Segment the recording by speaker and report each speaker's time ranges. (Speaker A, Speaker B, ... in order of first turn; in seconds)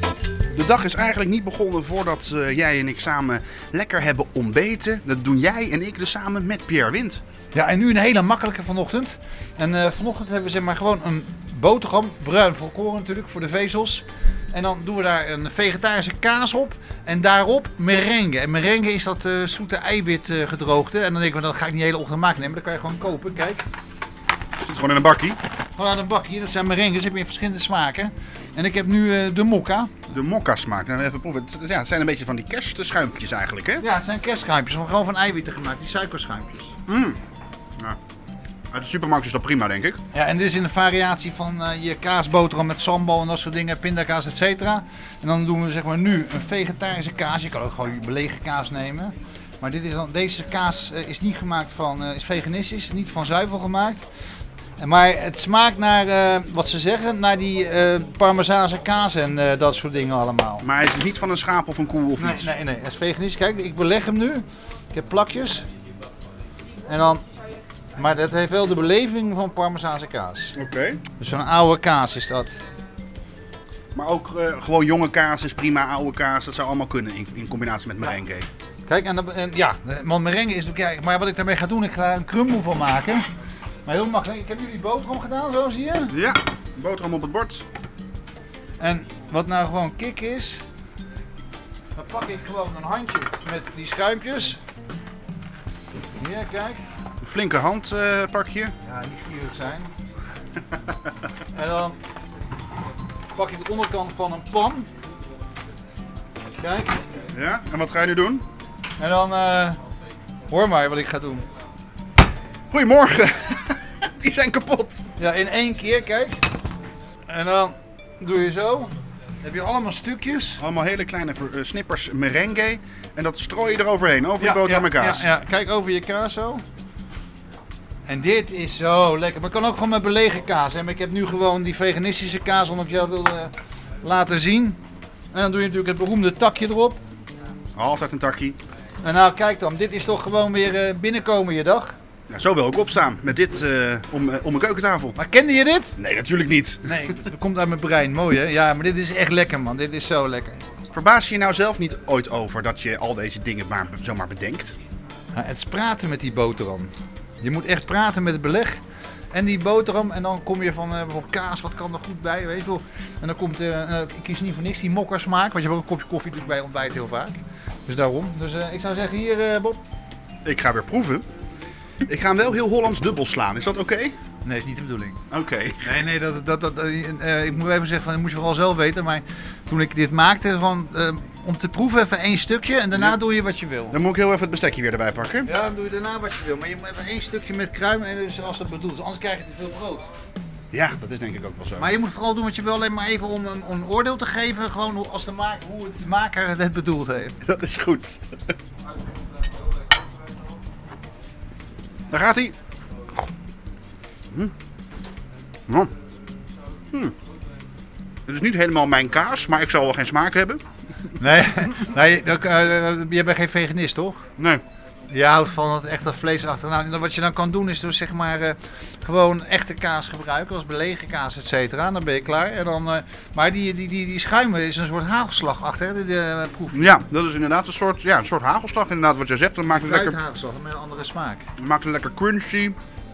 Speaker A: 0.5-7.2, 24.6-25.4, 30.1-33.8, 36.9-37.2, 38.7-40.0, 60.6-62.5, 70.5-71.0, 74.0-78.5, 86.1-87.6, 97.2-98.7, 107.3-108.5, 112.7-115.1, 120.6-125.3, 137.8-138.6, 142.3-145.2, 146.0-146.9, 150.9-154.8, 170.4-171.3, 172.1-174.1, 175.3-175.9, 183.9-185.5, 190.7-191.9, 197.4-198.2, 202.1-202.6, 208.3-210.6, 214.4-214.6, 226.7-230.2, 231.6-232.8
Speaker B: 7.5-23.6, 25.8-29.9, 33.8-36.7, 40.1-54.0, 54.8-60.7, 62.2-65.7, 66.8-67.2, 68.0-70.6, 71.2-72.5, 78.9-83.3, 83.9-86.2, 88.8-90.6, 92.0-94.6, 96.2-96.8, 98.8-99.9, 101.5-102.0, 103.3-104.9, 106.6-107.0, 109.0-109.8, 110.5-111.5, 115.2-116.4, 117.3-120.6, 124.4-126.6, 128.1-134.8, 135.3-137.0, 139.0-141.9, 145.2-145.9, 146.8-150.6, 155.3-158.8, 159.3-169.8, 174.4-175.2, 175.8-184.0, 185.4-190.1, 191.8-197.4, 211.2-214.3, 215.1-226.9, 229.7-231.4